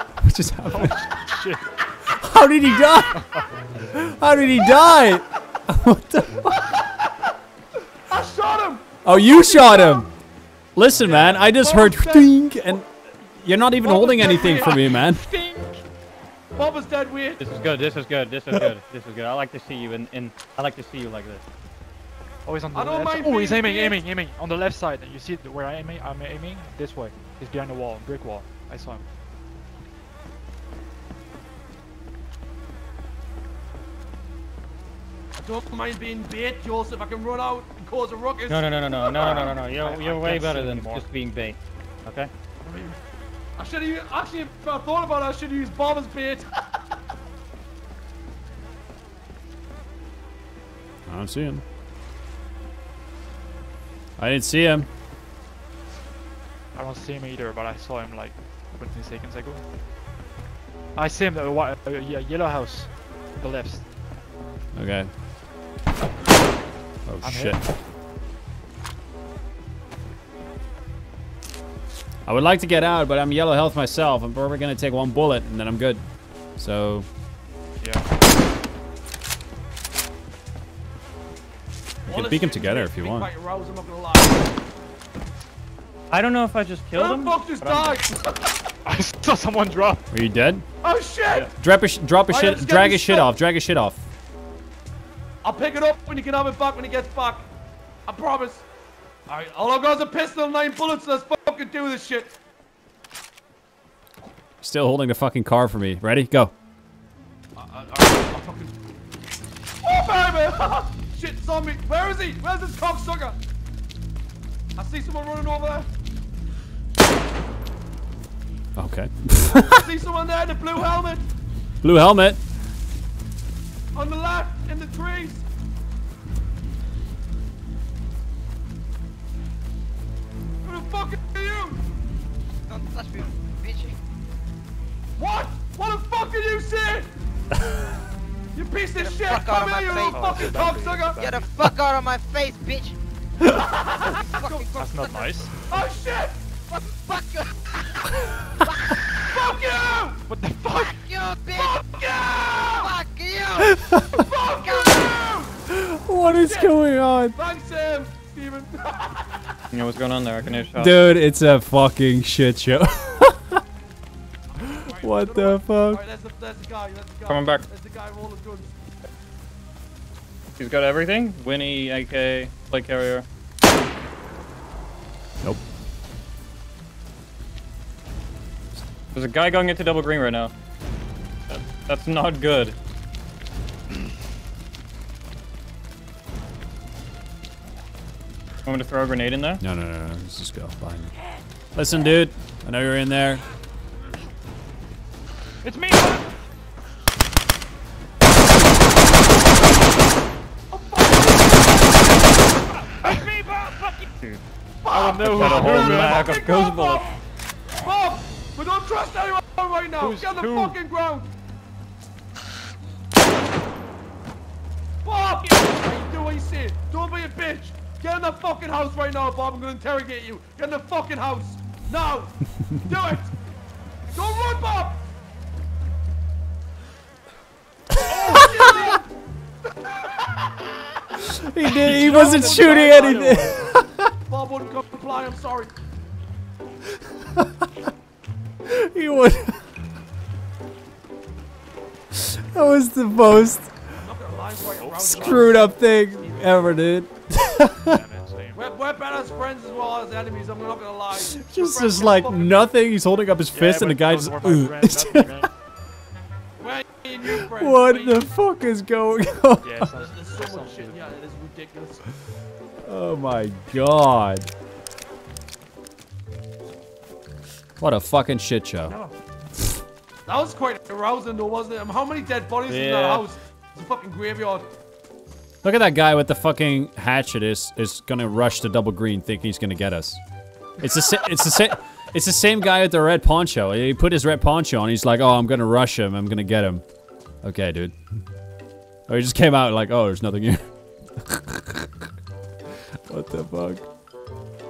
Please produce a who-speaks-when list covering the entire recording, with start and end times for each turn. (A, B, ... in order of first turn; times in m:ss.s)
0:00.2-0:01.0 A
0:00.6-0:01.6 B
0:02.1-0:03.3 A
0:03.9-0:06.7 A
0:06.8-0:07.0 C
0:08.1-0:10.1 C
0:09.0-0:10.1 A
0:10.7-0:15.3 A
0:11.0-0:12.8 C
0:13.8-0:14.9 C
0:15.2-0:15.8 D
0:16.5-0:17.4 C
0:17.4-0:21.4 E
0:22.4-0:29.0 B
0:22.7-0:24.0 C
0:35.4-0:40.2 C
0:38.5-0:42.3 E
0:40.2-0:41.0 B
0:42.6-0:43.0 C
0:43.6-0:46.5 C
0:51.1-0:51.6 A
0:54.2-0:54.9 A
0:56.7-0:59.6 B
1:01.0-1:03.9 B
1:04.7-1:05.1 A
1:07.0-1:07.7 A
1:07.2-1:07.7 B
1:12.2-1:16.0 A
1:16.6-1:17.0 A
1:22.0-1:23.3 A
1:22.1-1:24.5 C
1:26.1-1:28.0 E
1:26.9-1:28.7 C
1:28.8-1:30.0 B
1:30.1-1:30.6 A
1:30.8-1:31.5 C
1:31.4-1:34.0 A
1:32.3-1:33.3 C
1:35.4-1:37.4 C
1:38.1-1:38.6 C
1:39.3-1:42.3 C
1:44.6-1:46.5 A
1:47.5-1:48.8 C
1:49.8-1:53.4 C
1:54.8-1:55.9 C
1:58.8-1:59.8 A
1:59.7-2:01.2 C
2:01.8-2:02.4 A
2:03.9-2:05.4 C
2:10.6-2:11.8 C
2:12.7-2:14.0 F
2:15.2-2:17.1 C
2:18.5-2:21.3 C
2:19.0-2:20.6 F
2:20.1-2:21.4 B
2:21.2-2:23.0 F
2:23.5-2:24.7 C
2:24.2-2:25.5 F
2:24.7-2:25.5 B
2:25.5-2:27.0 C
2:27.0-2:27.5 F
2:28.7-2:29.0 F
2:29.3-2:30.2 C
2:30.3-2:31.1 B
2:30.7-2:31.8 F
2:31.5-2:33.0 C
2:32.8-2:33.8 F
2:33.7-2:34.2 A
2:34.1-2:35.6 C
2:34.5-2:35.1 F
2:35.7-2:37.4 A
2:36.4-2:36.8 C
2:37.3-2:39.2 C
2:39.7-2:41.0 E
2:40.7-2:43.6 A
2:44.6-2:48.7 C
2:44.9-2:46.0 A
2:47.3-2:47.6 E
2:50.6-2:53.2 E
2:59.1-3:00.5 E
3:01.5-3:02.8 E
3:08.6-3:09.6 E
3:09.6-3:11.1 A
3:11.7-3:13.4 A
3:15.6-3:16.2 D
3:20.7-3:22.0 C
3:23.0-3:24.1 D
3:24.8-3:27.0 C
3:25.0-3:26.3 B
3:25.1-3:27.0 E
3:27.8-3:31.3 C
3:35.0-3:43.3 C
3:44.1-3:45.0 C
3:48.1-3:49.0 C
3:48.2-3:48.9 A
3:49.8-3:50.7 C
3:51.3-3:54.1 A
3:51.8-3:53.6 B
3:54.3-3:55.7 C
3:58.6-3:59.6 A
4:02.1-4:03.7 A
4:04.0-4:05.8 C
4:04.8-4:05.5 B
4:04.9-4:07.9 A
4:06.1-4:06.7 B
4:07.8-4:08.6 B
4:08.5-4:12.7 C
4:11.1-4:15.5 A
4:13.5-4:15.5 B
4:16.6-4:18.3 C
4:17.2-4:19.9 A
4:19.6-4:21.1 B
4:19.9-4:22.0 C
4:22.8-4:24.5 A
4:27.8-4:29.0 A
4:28.8-4:29.2 C
4:30.2-4:34.7 C
4:32.7-4:33.3 E
4:35.6-4:40.2 A
4:40.8-4:46.8 A
4:47.4-4:48.0 A
4:49.1-4:50.6 A
4:51.2-4:52.0 A
4:53.1-4:53.9 A